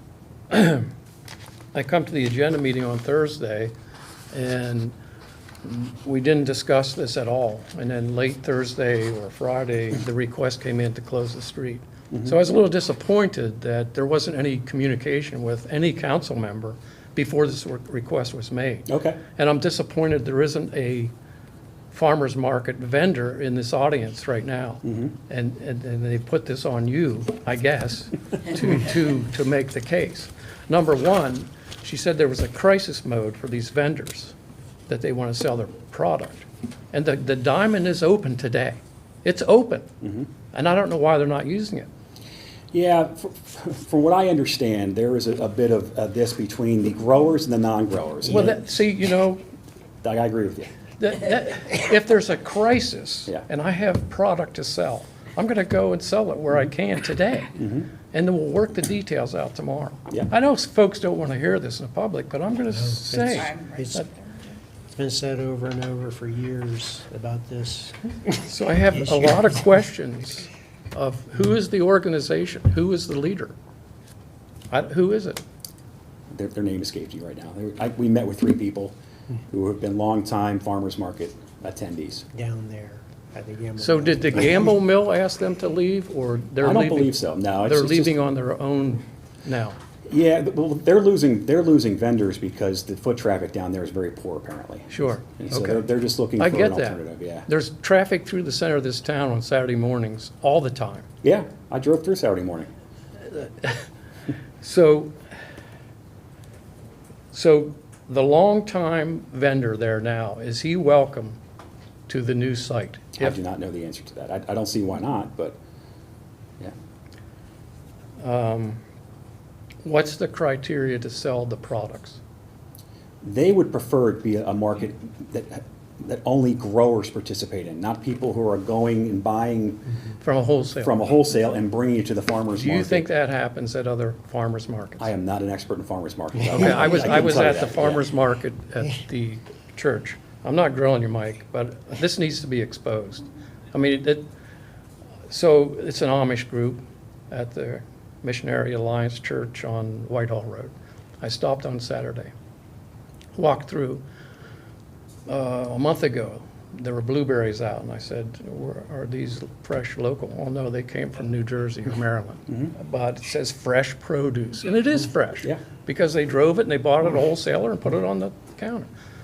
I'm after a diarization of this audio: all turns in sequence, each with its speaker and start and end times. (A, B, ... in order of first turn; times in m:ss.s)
0:00.5-0:00.9 A
0:01.7-0:03.7 A
0:04.3-0:05.0 A
0:05.6-0:21.1 A
0:12.1-0:12.4 B
0:18.9-0:19.2 B
0:21.9-0:34.3 A
0:34.9-0:39.9 A
0:40.0-0:40.3 B
0:40.5-0:41.9 A
0:42.7-0:48.7 B
0:48.2-0:49.4 A
0:50.0-0:50.7 B
0:51.0-0:57.6 A
0:57.6-0:57.9 B
0:58.1-1:04.1 A
1:02.7-1:04.1 C
1:04.9-1:08.1 C
1:08.4-1:13.5 A
1:08.9-1:09.4 C
1:14.7-1:15.4 A
1:16.3-1:18.9 B
1:19.5-1:22.2 B
1:22.3-1:24.6 C
1:23.8-1:29.8 A
1:26.6-1:28.2 B
1:30.1-1:37.5 B
1:34.9-1:41.1 A
1:41.2-1:42.7 B
1:43.3-1:43.8 A
1:44.6-1:45.1 A
1:47.3-1:51.4 A
1:52.1-1:53.4 A
1:53.2-1:55.6 B
1:58.2-1:58.8 A
1:59.8-2:02.2 A
2:03.2-2:09.8 B
2:10.2-2:11.0 A
2:10.8-2:13.1 B
2:12.5-2:15.1 A
2:15.0-2:18.1 B
2:16.5-2:24.3 A
2:25.3-2:32.3 A
2:33.3-2:34.0 A
2:35.3-2:48.9 A